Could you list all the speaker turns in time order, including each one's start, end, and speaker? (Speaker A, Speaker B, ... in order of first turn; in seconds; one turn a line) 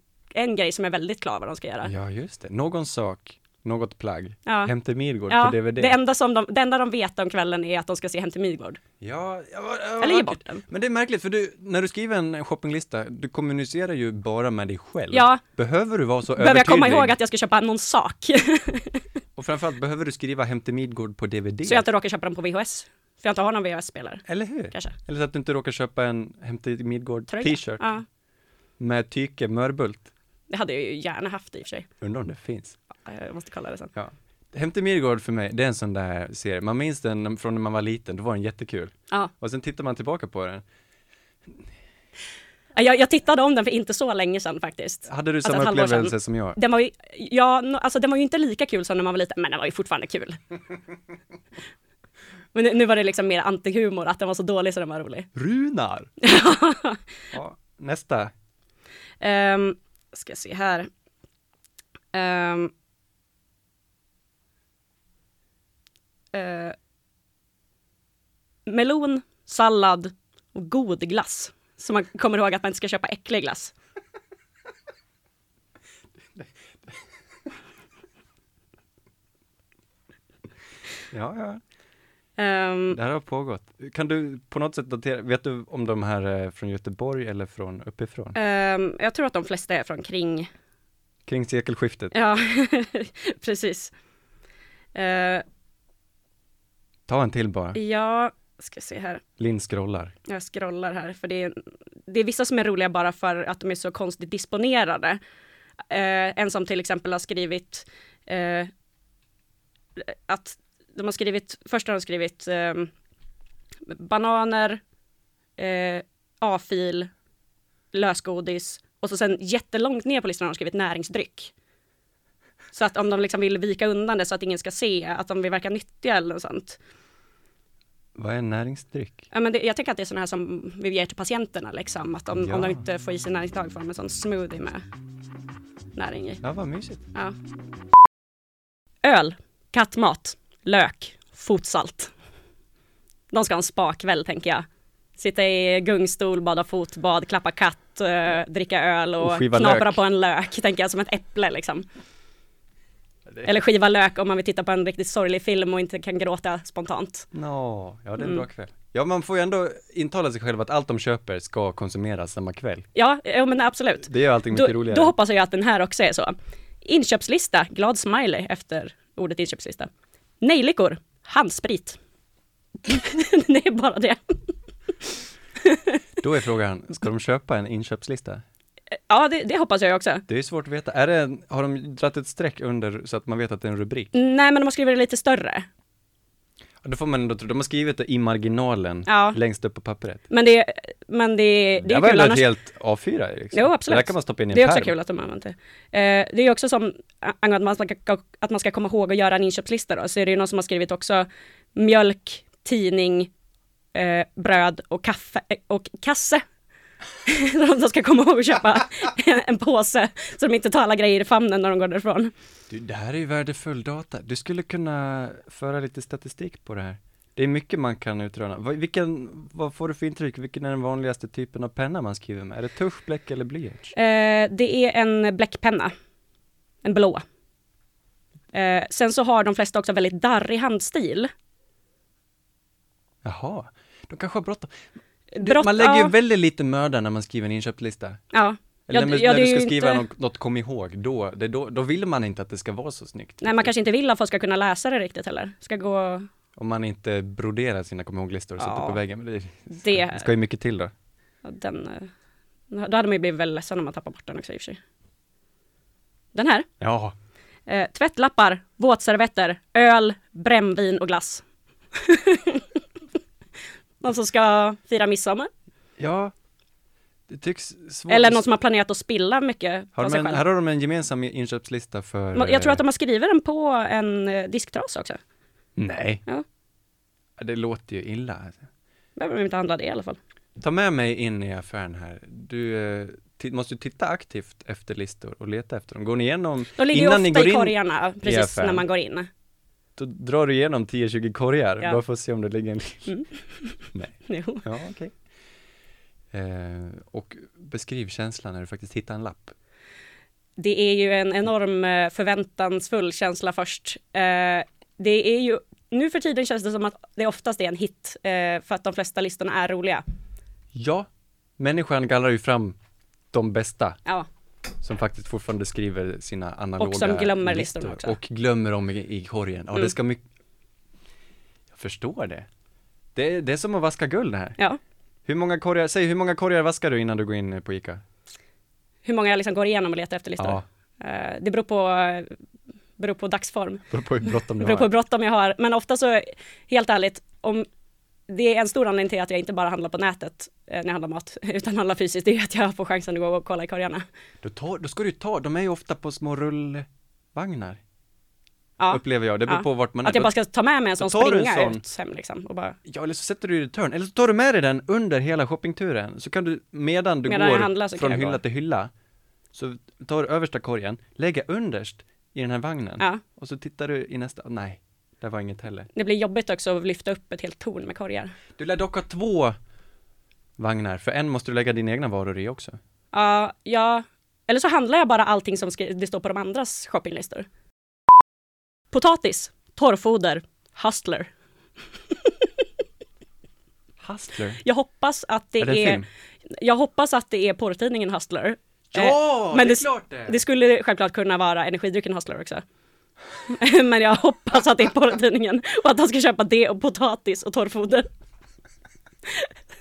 Speaker A: 0.3-1.9
Speaker B: 1.8-6.0
Speaker A: 4.4-4.7
Speaker A: 5.3-8.8
Speaker B: 9.0-17.2
Speaker A: 10.0-10.7
Speaker A: 15.1-15.4
Speaker A: 16.4-19.0
Speaker B: 19.4-21.9
Speaker A: 21.6-25.0
Speaker B: 24.3-27.9
Speaker A: 27.3-28.0
Speaker B: 28.8-30.1
Speaker A: 30.5-31.9
Speaker B: 32.0-32.8
Speaker A: 33.0-33.9
Speaker B: 33.9-40.6
Speaker A: 42.7-50.4
Speaker B: 45.0-46.6
Speaker A: 52.5-55.3
Speaker B: 55.3-56.1
Speaker A: 56.2-57.0
Speaker B: 57.3-58.3
Speaker A: 59.2-60.9
Speaker A: 62.1-62.7
Speaker A: 66.3-66.8
Speaker A: 68.7-73.7
Speaker B: 81.1-81.6
Speaker A: 82.4-83.0
Speaker B: 82.9-88.4
Speaker A: 88.3-90.5
Speaker B: 91.2-92.1
Speaker A: 92.1-93.9
Speaker A: 94.9-95.4
Speaker B: 97.1-97.8
Speaker A: 97.7-99.2
Speaker B: 99.4-100.1
Speaker A: 100.2-105.2
Speaker A: 105.9-108.7
Speaker A: 110.0-112.9
Speaker A: 113.9-114.8
Speaker A: 115.6-117.1
Speaker A: 117.9-121.5
Speaker A: 122.7-126.8
Speaker B: 128.2-129.3
Speaker A: 129.3-134.8
Speaker B: 132.3-132.8
Speaker A: 135.9-136.4
Speaker B: 136.4-137.0
Speaker A: 139.0-142.1
Speaker A: 143.3-144.6
Speaker A: 145.2-151.9
Speaker B: 149.2-150.0
Speaker A: 153.4-157.3
Speaker B: 157.3-162.9
Speaker A: 158.2-158.4
Speaker A: 162.9-169.9
Speaker B: 164.0-165.1
Speaker A: 170.4-172.0
Speaker A: 172.8-174.4
Speaker A: 175.6-176.0
Speaker B: 176.2-178.4
Speaker A: 179.1-180.2
Speaker B: 180.3-184.1
Speaker A: 184.1-185.7
Speaker B: 186.8-190.2
Speaker A: 189.1-189.4
Speaker A: 190.3-192.5
Speaker B: 191.8-194.9
Speaker A: 193.5-203.3
Speaker A: 203.9-206.4
Speaker A: 207.2-212.3
Speaker B: 212.7-223.9
Speaker A: 223.9-225.9
Speaker A: 226.8-227.2
Speaker A: 228.5-231.3
Speaker B: 233.2-234.7
Speaker A: 235.3-236.1
Speaker B: 235.4-238.2
Speaker A: 238.3-240.0
Speaker B: 238.9-243.7
Speaker A: 243.4-246.2
Speaker B: 246.6-250.9
Speaker A: 248.6-249.0
Speaker A: 249.7-250.3
Speaker A: 251.4-252.1
Speaker A: 252.7-254.8
Speaker A: 256.3-256.7
Speaker B: 256.8-257.1
Speaker A: 257.7-262.8
Speaker A: 264.0-265.5
Speaker B: 266.0-266.3
Speaker B: 267.3-268.5
Speaker A: 268.1-270.4
Speaker B: 269.9-272.8
Speaker A: 272.3-275.2
Speaker B: 275.8-276.2
Speaker B: 277.4-278.6
Speaker A: 279.1-280.2
Speaker B: 280.6-288.8
Speaker A: 286.8-289.3
Speaker B: 290.0-293.2
Speaker A: 293.1-294.6
Speaker B: 293.9-295.1
Speaker B: 296.3-299.5
Speaker A: 300.6-310.0
Speaker B: 310.7-311.1
Speaker B: 311.6-312.8
Speaker B: 313.3-314.0
Speaker B: 314.8-320.2
Speaker A: 316.8-318.2
Speaker B: 321.7-322.5
Speaker B: 323.1-324.6
Speaker B: 325.2-328.0
Speaker A: 329.0-332.3
Speaker B: 330.4-330.6
Speaker A: 333.0-337.6
Speaker B: 333.9-334.9
Speaker A: 338.3-344.1
Speaker B: 344.4-347.8
Speaker A: 348.8-352.8
Speaker B: 348.9-350.3
Speaker B: 351.0-351.8
Speaker B: 352.9-358.9
Speaker A: 357.2-358.4
Speaker B: 359.5-365.9
Speaker A: 365.9-368.3
Speaker B: 368.6-369.5
Speaker B: 370.6-372.8
Speaker A: 373.1-377.4
Speaker A: 378.9-381.3
Speaker B: 384.0-384.6
Speaker A: 384.6-392.6
Speaker B: 385.6-386.1
Speaker B: 388.9-390.4
Speaker A: 393.5-398.1